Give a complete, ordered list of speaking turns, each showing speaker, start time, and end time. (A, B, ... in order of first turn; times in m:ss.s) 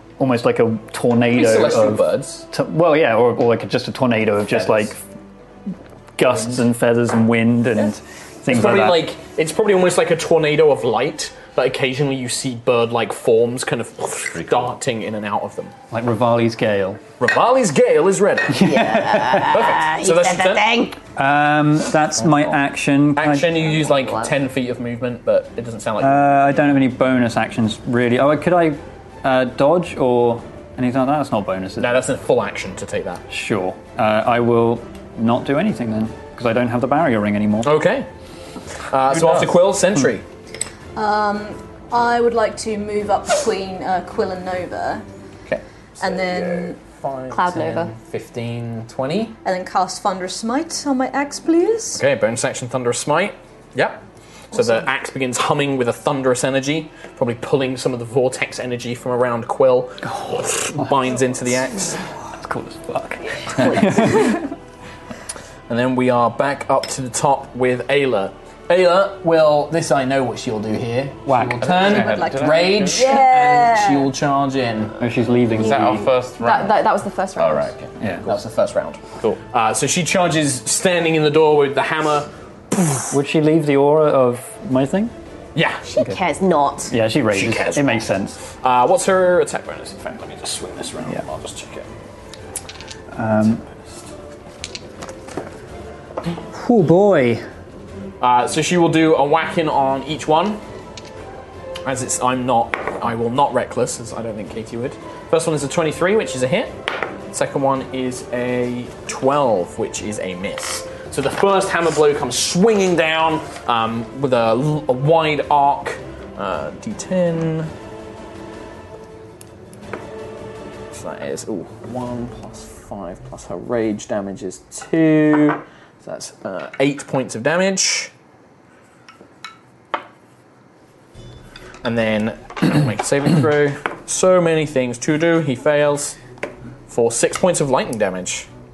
0:00.2-0:05.0 A
0:01.3-0:02.4 B
0:04.5-0:04.9 B
0:06.2-0:09.0 A
0:08.5-0:15.7 B
0:14.3-0:14.7 C
0:15.9-0:17.0 A
0:17.2-0:18.7 B
0:18.5-0:19.6 A
0:18.6-0:21.0 D
0:19.4-0:20.7 B
0:21.2-0:23.5 A
0:23.2-0:26.4 B
0:23.8-0:24.3 D
0:26.0-0:32.0 A
0:31.8-0:33.2 B
0:33.3-0:37.8 A
0:37.6-0:38.1 B
0:38.9-0:40.2 B
0:39.1-0:39.5 A
0:40.9-0:45.0 E
0:45.5-0:49.4 B
0:46.0-0:46.8 E
0:47.3-0:47.9 D
0:49.4-0:52.0 E
0:51.9-1:02.0 B
1:00.0-1:01.2 A
1:02.0-1:04.4 A
1:04.1-1:04.4 E
1:05.7-1:14.9 B
1:11.3-1:12.0 A
1:11.6-1:13.2 C
1:12.0-1:14.1 E
1:15.0-1:16.1 A
1:15.5-1:16.8 C
1:15.6-1:17.7 D
1:17.4-1:18.0 C
1:18.0-1:18.4 A
1:18.2-1:23.0 B
1:23.1-1:25.1 A
1:25.5-1:26.0 B
1:25.9-1:26.9 D
1:26.9-1:28.4 A
1:27.3-1:31.9 B
1:33.1-1:33.6 A
1:36.4-1:37.4 A
1:38.2-1:40.6 B
1:41.8-1:46.7 B
1:47.3-1:57.7 B
2:00.9-2:08.1 B
2:11.8-2:16.2 B
2:16.9-2:18.5 B